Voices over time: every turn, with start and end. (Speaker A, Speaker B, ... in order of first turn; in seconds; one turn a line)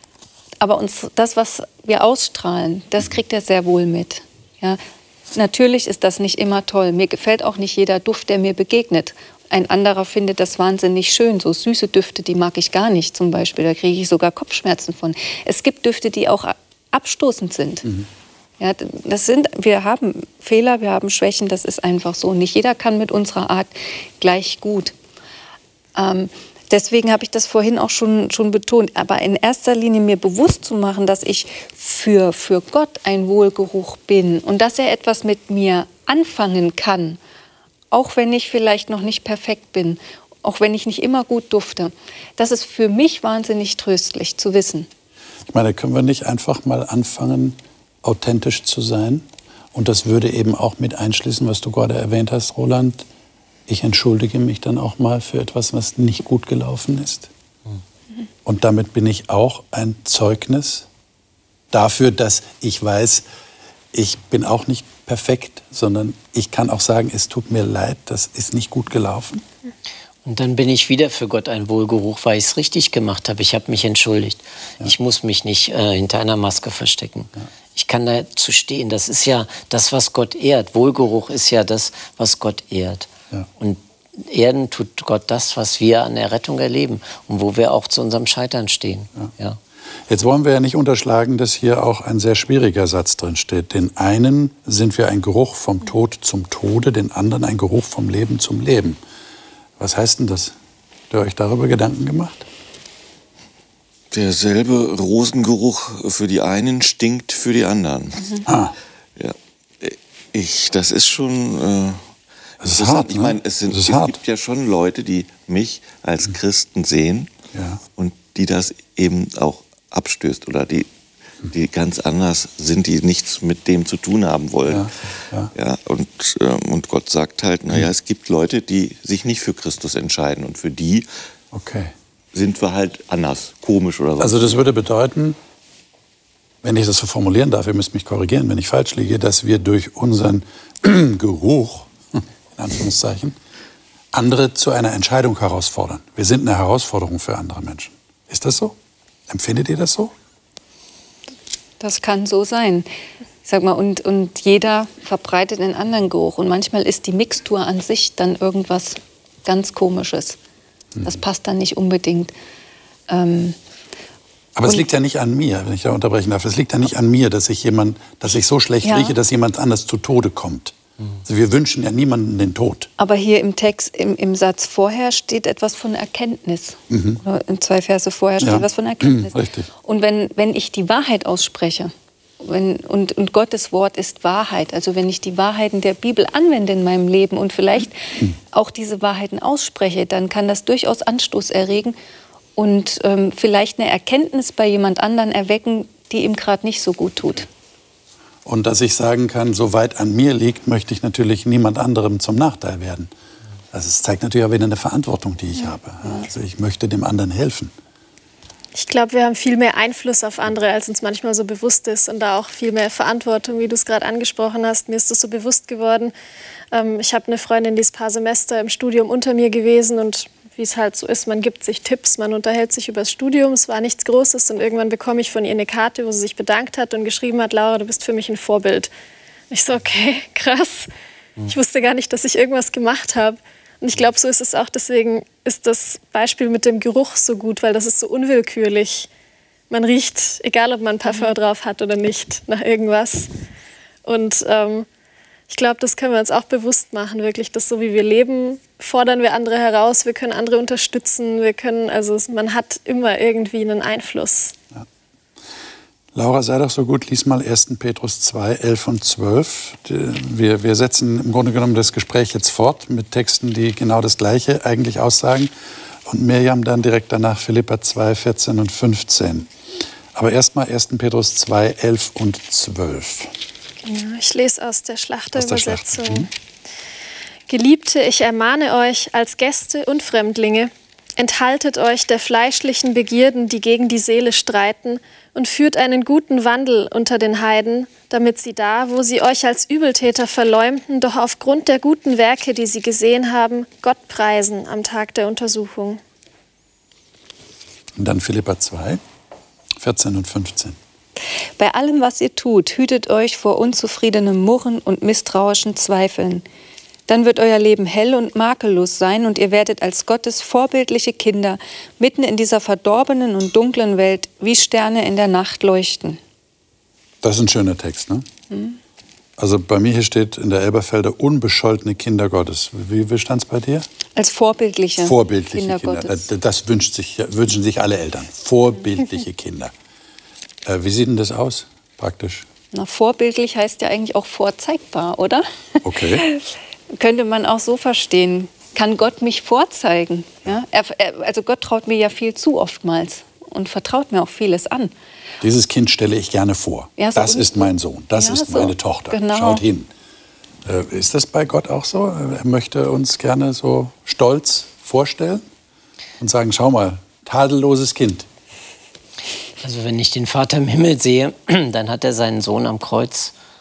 Speaker A: 0.6-4.8
Speaker A: 5.3-17.9
Speaker A: 18.6-24.9
Speaker A: 25.9-37.2
Speaker A: 37.9-44.9
Speaker B: 45.5-53.1
Speaker B: 53.7-57.3
Speaker B: 58.4-60.9
Speaker B: 61.7-63.2
Speaker B: 63.9-69.4
Speaker C: 70.2-89.6
Speaker B: 90.1-99.0
Speaker B: 99.8-100.5
Speaker B: 101.1-102.5
Speaker D: 104.1-108.5
Speaker B: 108.5-108.7
Speaker D: 109.2-112.0
Speaker D: 112.6-117.3
Speaker B: 112.6-114.2
Speaker B: 117.5-117.8
Speaker D: 118.0-120.9
Speaker D: 121.5-124.9
Speaker B: 124.7-125.5
Speaker D: 125.5-131.1
Speaker B: 131.5-131.9
Speaker D: 132.3-134.6
Speaker B: 134.2-135.4
Speaker B: 136.6-143.4
Speaker B: 144.1-148.8
Speaker B: 149.3-150.1
Speaker A: 151.8-152.9
Speaker A: 153.4-160.4
Speaker A: 161.0-162.3
Speaker A: 163.1-163.6
Speaker B: 164.5-172.9
Speaker A: 168.8-169.2
Speaker A: 173.0-192.0
Speaker B: 176.9-177.2
Speaker B: 178.4-179.7
Speaker A: 192.6-197.5
Speaker B: 198.4-203.1
Speaker B: 203.7-207.7
Speaker E: 208.8-216.1
Speaker E: 216.7-228.9
Speaker E: 229.5-230.9
Speaker E: 231.4-239.1
Speaker E: 239.7-243.3
Speaker E: 244.0-244.9
Speaker E: 245.5-254.5
Speaker B: 256.1-265.5
Speaker B: 266.1-269.5
Speaker B: 270.1-273.3
Speaker E: 273.8-276.3
Speaker B: 275.3-276.3
Speaker E: 277.5-296.0
Speaker B: 297.9-299.0
Speaker B: 299.8-300.8
Speaker A: 301.6-306.4
Speaker A: 307.1-316.2
Speaker B: 317.2-318.2
Speaker A: 318.5-318.8
Speaker B: 319.4-323.9
Speaker A: 324.1-326.2
Speaker B: 325.0-329.7
Speaker B: 330.6-332.5
Speaker A: 332.7-344.9
Speaker B: 335.8-336.2
Speaker B: 345.4-349.9
Speaker A: 347.0-349.6
Speaker B: 350.6-355.4
Speaker B: 356.2-358.3
Speaker C: 359.6-363.3